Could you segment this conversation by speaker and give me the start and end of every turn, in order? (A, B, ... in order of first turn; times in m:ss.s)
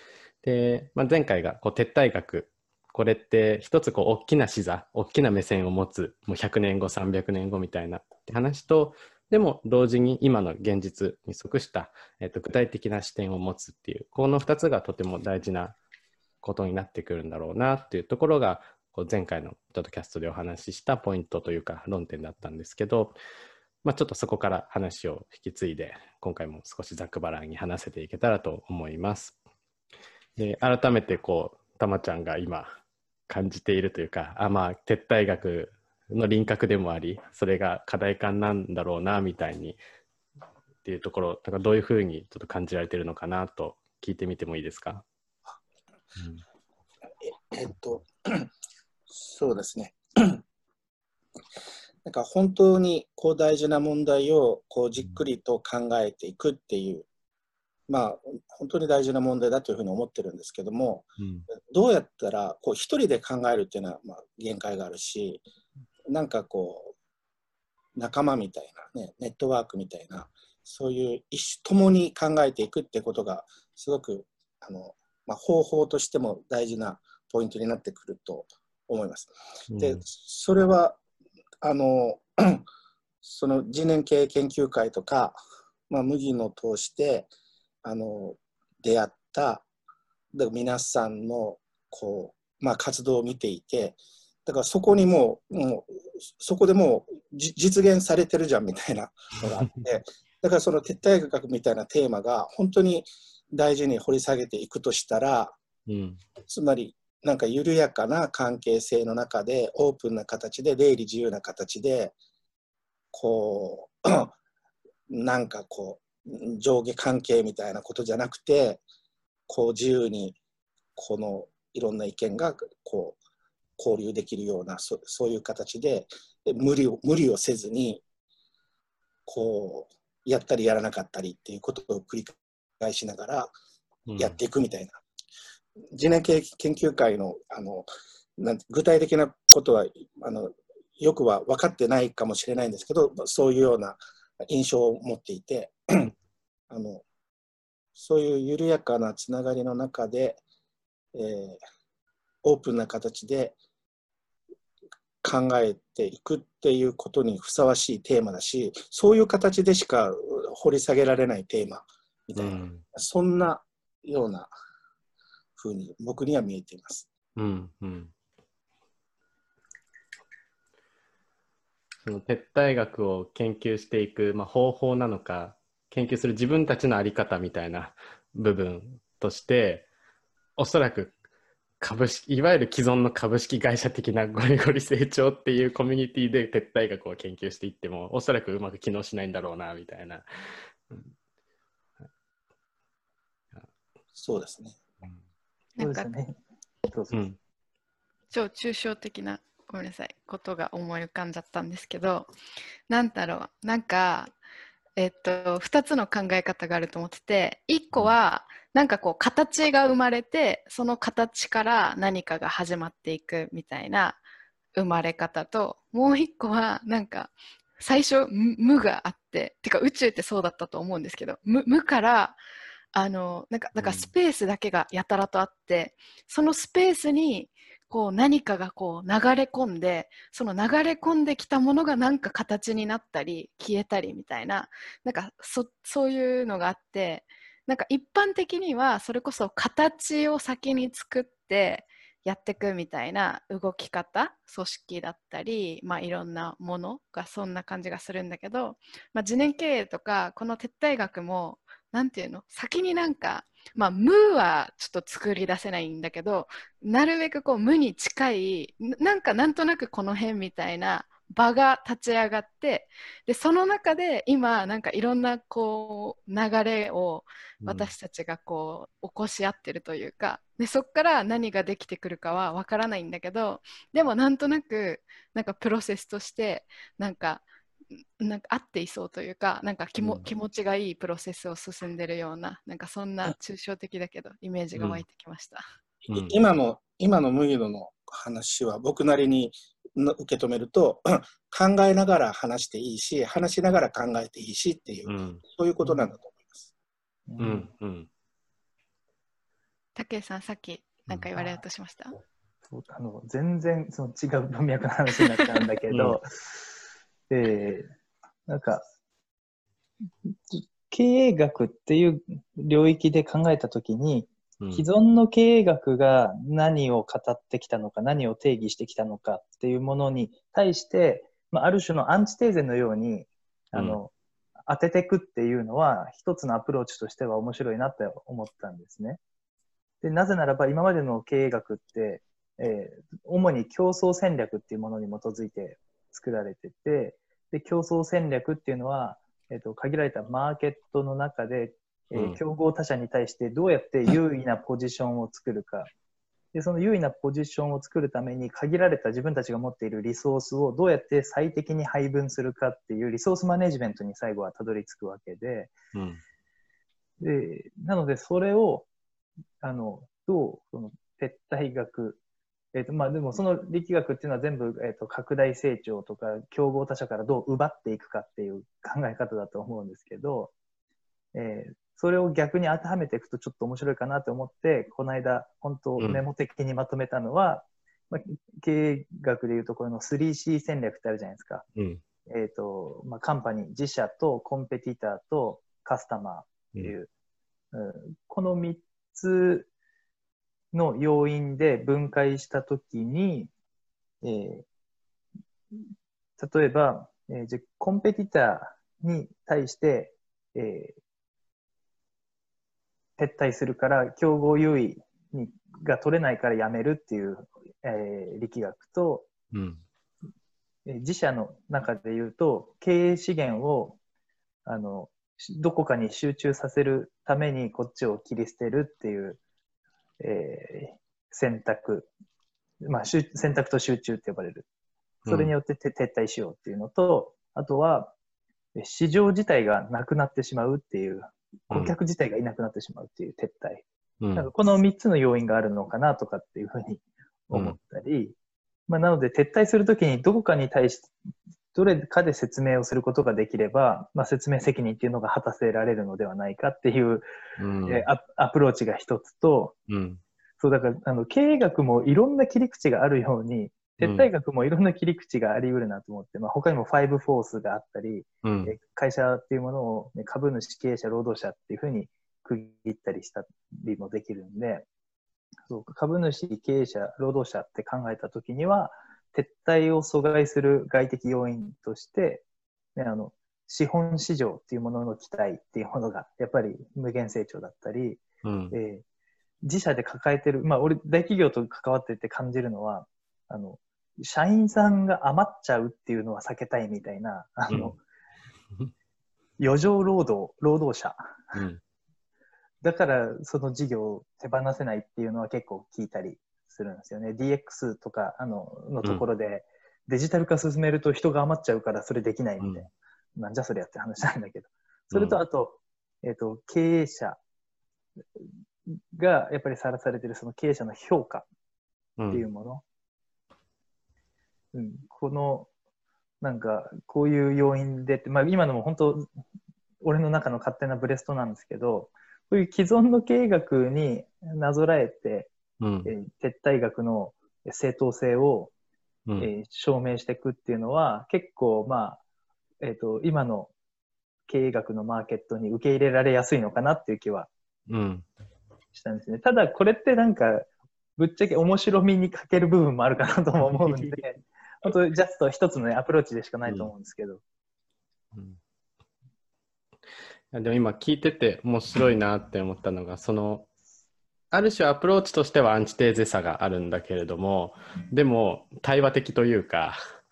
0:00.4-0:15.8 A
0:16.4-0:23.2 A
0:23.8-0:29.4 A
0:30.4-0:32.8 A
0:33.3-0:39.8 A
0:40.8-0:45.0 A
0:46.2-0:46.4 A
0:47.2-0:48.5 B
0:49.1-0:50.4 B
0:52.0-0:57.1 B
0:57.9-1:05.4 B
1:01.2-1:01.5 A
1:06.1-1:06.9 B
1:08.0-1:21.0 B
1:19.7-1:20.0 A
1:21.6-1:22.6 B
1:23.2-1:25.4 B
1:25.9-1:27.3 B
1:27.8-1:29.6 B
1:30.3-1:45.6 B
1:45.9-1:46.2 A
1:46.5-1:52.1 B
1:53.1-1:54.3 B
1:55.1-1:58.8 B
1:59.5-2:00.4 B
2:01.0-2:03.2 B
2:03.8-2:08.0 B
2:09.2-2:13.5 B
2:14.1-2:14.4 A
2:14.2-2:15.0 B
2:15.9-2:24.0 B
2:24.5-2:26.1 B
2:26.7-2:27.0 B
2:28.0-2:30.4 B
2:31.1-2:31.6 B
2:32.4-2:33.6 B
2:35.2-2:44.5 B
2:42.3-2:42.8 A
2:45.6-2:47.1 B
2:47.4-2:48.1 A
2:52.0-2:59.9 A
3:00.6-3:01.2 A
3:01.8-3:10.2 A
3:14.1-3:14.8 B
3:15.8-3:16.1 C
3:15.8-3:16.4 D
3:16.9-3:17.3 D
3:17.1-3:17.4 A
3:18.3-3:22.3 C
3:22.9-3:24.4 C
3:25.0-3:34.2 C
3:34.8-3:42.4 C
3:42.9-4:37.5 C
3:43.8-3:44.1 A
4:27.6-4:27.9 A
4:38.2-4:45.6 C
4:40.0-4:40.2 A
4:44.8-4:45.0 A
4:46.0-4:56.6 B
4:46.1-4:46.4 A
4:55.0-4:55.4 A
4:55.8-4:56.1 D
4:57.3-4:57.7 D
4:57.4-4:58.1 A
5:00.0-5:02.2 C
5:01.3-5:01.6 D
5:02.7-5:06.6 D
5:05.9-5:06.2 A
5:07.3-5:07.9 D
5:08.5-5:08.8 D
5:10.2-5:24.1 D
5:14.6-5:14.8 A
5:24.7-5:29.2 D
5:30.0-5:45.9 D
5:42.1-5:42.4 A
5:46.5-5:55.7 D
5:55.9-5:56.2 A
5:57.2-5:58.9 D
5:59.6-6:02.2 D
6:02.7-6:10.5 D
6:11.3-6:21.6 D
6:16.0-6:16.2 A
6:21.8-6:22.0 A
6:22.3-6:27.1 D
6:27.7-6:29.7 D
6:30.7-6:33.5 D
6:34.2-6:34.6 D
6:36.4-6:41.0 D
6:43.2-6:49.3 D
6:49.5-6:49.8 A
6:50.8-6:54.0 D
6:54.6-6:59.4 D
7:00.2-7:02.1 D
7:02.8-7:04.7 D
7:05.2-7:05.5 A
7:05.3-7:08.1 D
7:08.7-7:18.3 D
7:14.2-7:14.5 A
7:18.9-7:21.1 D
7:21.7-7:27.2 D
7:27.6-7:28.0 A
7:27.9-7:29.7 D
7:29.9-7:30.2 A
7:30.6-7:44.8 D
7:34.0-7:34.3 A
7:38.4-7:38.7 A
7:45.6-7:59.0 D
7:58.4-7:58.8 A
7:59.6-8:08.0 D
8:07.7-8:08.0 A
8:09.6-8:11.4 D
8:11.5-8:11.8 A
8:12.8-8:27.4 D
8:22.6-8:22.8 A
8:25.1-8:25.4 A
8:28.9-8:31.5 D
8:32.2-8:32.4 A
8:32.3-8:32.8 D
8:34.7-8:35.7 D
8:36.4-8:39.3 D
8:40.0-8:45.5 D
8:45.8-8:46.1 A
8:46.0-8:48.7 D
8:49.4-8:52.2 D
8:52.8-8:53.7 D
8:54.5-8:57.5 D
8:57.9-8:58.3 A
8:58.9-9:07.4 D
9:03.8-9:04.1 A
9:06.6-9:06.9 A
9:08.3-9:08.6 A
9:10.5-9:13.7 A
9:14.5-9:20.0 A